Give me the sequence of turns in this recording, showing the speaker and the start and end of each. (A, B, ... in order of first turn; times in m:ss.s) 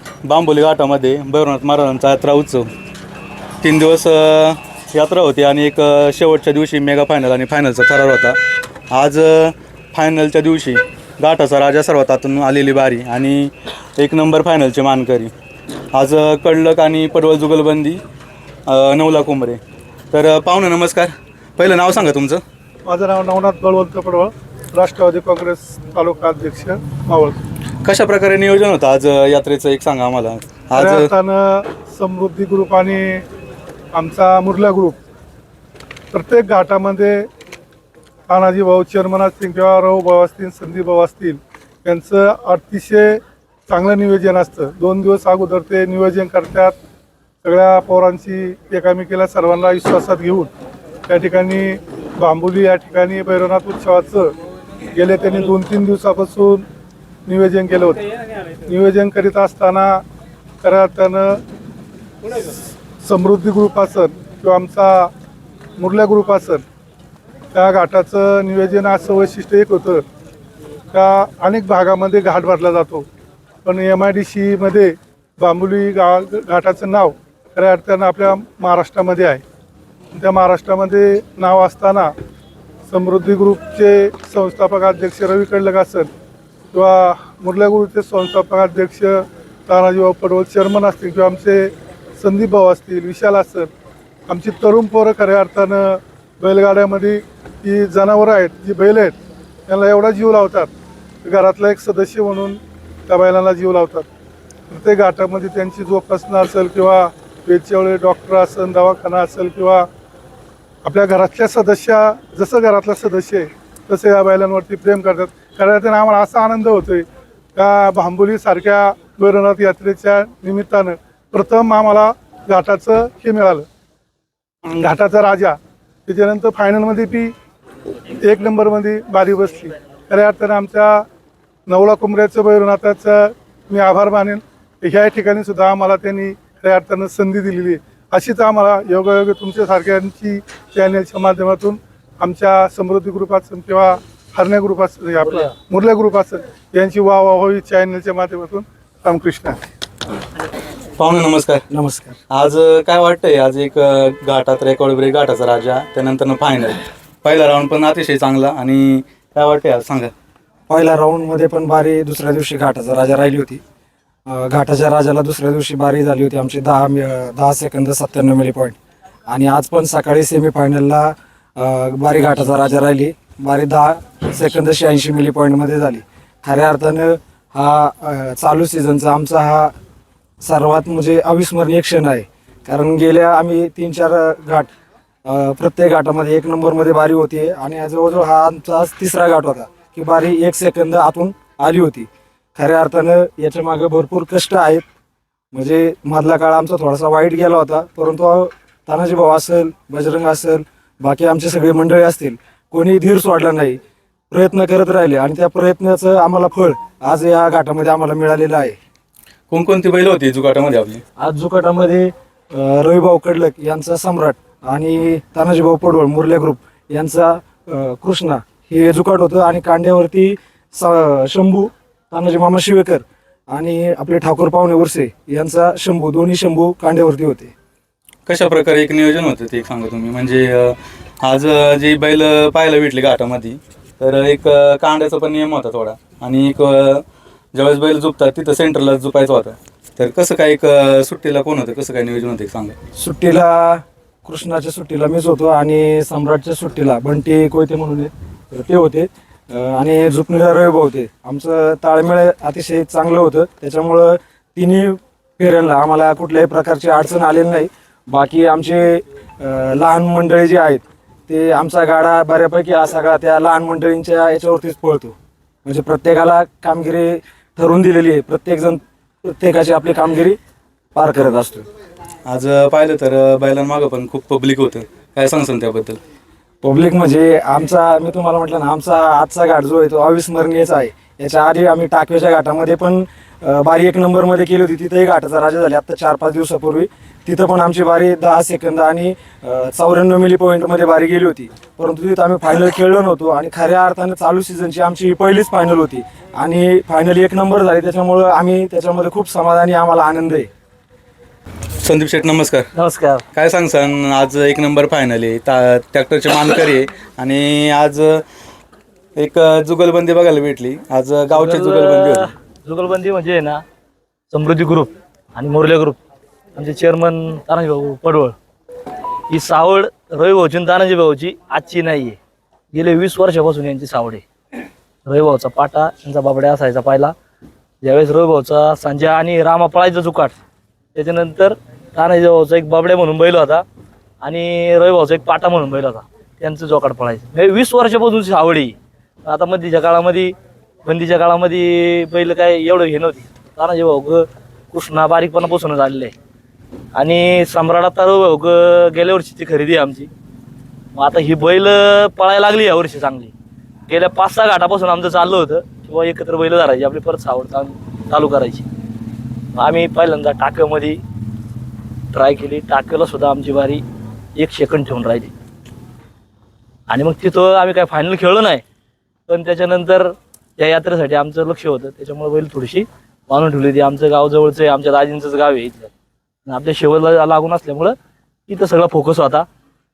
0:00.2-0:02.7 A
0:03.6-0:08.4 A
0:08.9-0:15.3 A
0:15.9-0:18.0 A
0:18.7-0:19.6 A
0:20.1-0:22.4 A
0:22.8-0:27.4 B
0:27.8-0:31.1 A
0:30.7-0:33.2 B
0:33.9-0:35.0 B
0:36.1-0:37.2 B
0:38.3-0:46.7 B
0:47.4-0:50.5 B
0:51.1-0:54.3 B
0:54.9-0:56.6 B
0:57.2-0:58.0 B
0:58.7-1:00.0 B
1:00.6-1:01.4 B
1:03.0-1:05.1 B
1:05.8-1:06.6 B
1:07.5-1:10.0 B
1:10.9-1:13.0 B
1:13.6-1:19.4 B
1:20.1-1:22.1 B
1:22.9-1:26.1 B
1:26.7-1:33.7 B
1:34.3-1:39.2 B
1:39.7-1:40.7 B
1:41.2-1:44.1 B
1:44.7-1:49.9 B
1:50.8-1:57.0 B
1:57.6-2:03.7 B
2:04.7-2:07.3 B
2:08.1-2:11.0 B
2:11.7-2:29.6 B
2:31.0-2:31.6 A
2:31.7-2:32.2 C
2:32.3-2:40.1 A
2:40.7-2:43.6 C
2:44.3-2:48.8 C
2:49.3-2:59.7 C
3:00.4-3:04.7 C
3:05.2-3:14.8 C
3:15.5-3:23.8 C
3:24.3-3:28.8 C
3:29.5-3:31.0 A
3:31.2-3:47.5 C
3:48.2-3:57.0 A
3:57.5-4:02.7 A
4:02.9-4:30.4 C
4:30.9-4:31.6 C
4:32.2-4:36.0 A
4:36.6-5:00.5 C
5:01.8-5:02.7 A
5:02.7-5:03.2 D
5:03.3-5:08.2 A
5:09.2-5:12.3 A
5:11.3-5:13.6 D
5:14.3-5:16.0 D
5:16.6-5:18.4 D
5:19.3-5:22.2 D
5:22.7-5:24.2 D
5:25.0-5:27.1 D
5:27.8-5:30.4 D
5:30.9-5:33.6 D
5:34.2-5:40.3 D
5:40.8-5:46.1 D
5:46.9-5:50.1 D
5:50.9-5:53.3 D
5:53.9-5:58.6 D
5:59.5-6:01.0 D
6:02.1-6:03.8 D
6:04.4-6:05.3 D
6:06.9-6:08.6 D
6:09.3-6:15.9 D
6:16.4-6:17.9 D
6:18.5-6:19.4 D